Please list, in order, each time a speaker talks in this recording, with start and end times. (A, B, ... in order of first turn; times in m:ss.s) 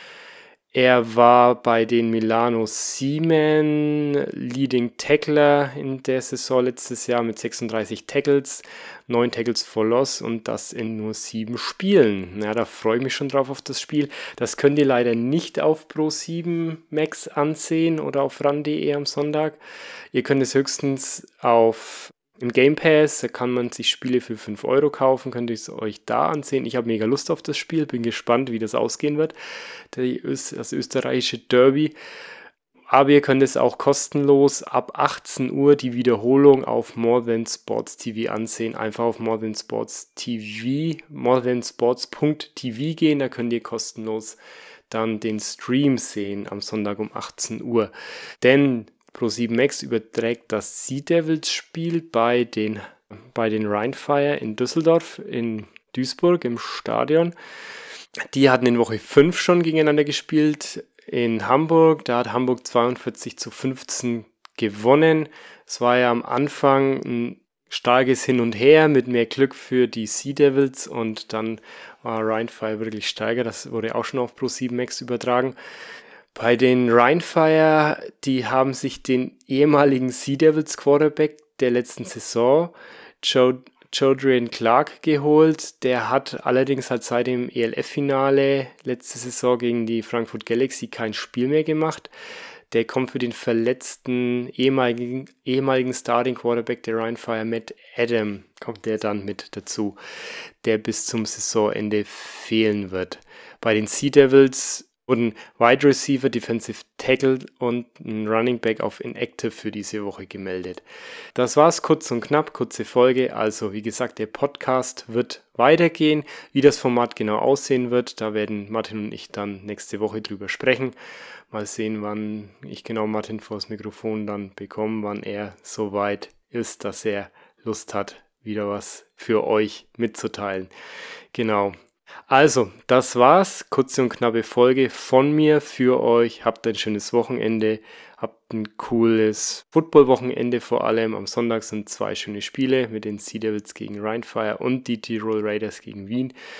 0:00.7-0:19.6 A
0:20.1-0:29.3 A
0:29.9-0:32.0 A
0:32.9-0:44.4 A
0:44.9-0:57.3 A
0:58.3-1:15.6 A
1:16.3-1:32.1 A
1:32.7-1:40.0 A
1:40.6-1:50.8 A
1:51.3-2:01.0 A
2:01.5-2:10.7 A
2:11.3-2:11.8 A
2:12.3-2:26.3 A